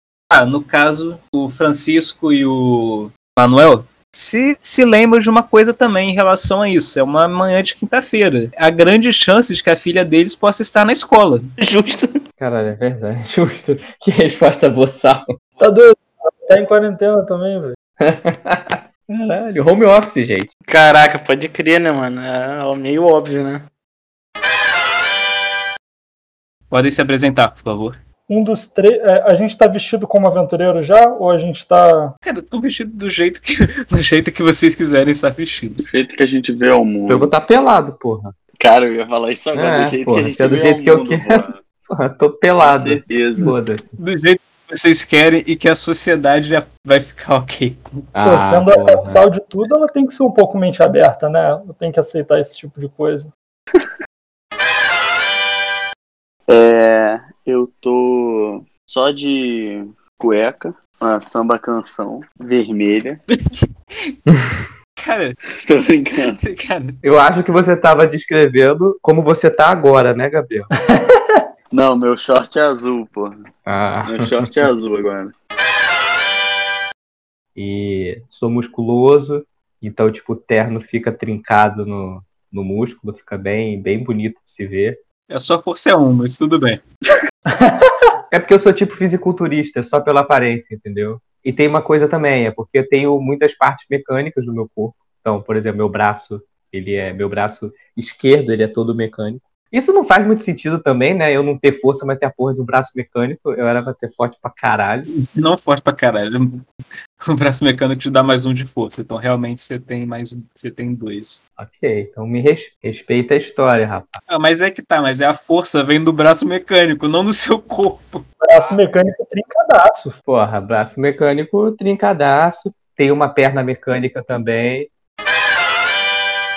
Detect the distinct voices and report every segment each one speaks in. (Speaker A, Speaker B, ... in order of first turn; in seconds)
Speaker A: 0.3-11.5, 26.7-28.0, 32.2-35.9, 44.0-48.1, 65.0-65.3, 66.2-67.0, 85.3-86.8, 105.1-106.7, 107.2-111.4, 114.3-118.8
Speaker B: 11.6-12.1, 20.7-23.6
Speaker C: 12.4-15.3, 18.0-20.5, 37.1-38.3, 39.5-44.0, 48.1-49.2, 67.0-70.7, 73.7-74.5, 77.5-85.0, 88.3-105.1, 111.6-114.2, 120.2-124.9
Speaker D: 15.6-17.8, 28.3-32.1, 48.2-53.3, 70.9-71.4, 118.4-120.2
Speaker E: 35.8-37.3, 38.6-41.6, 42.6-43.5, 56.5-63.2, 65.6-66.4, 71.7-73.5, 74.0-75.3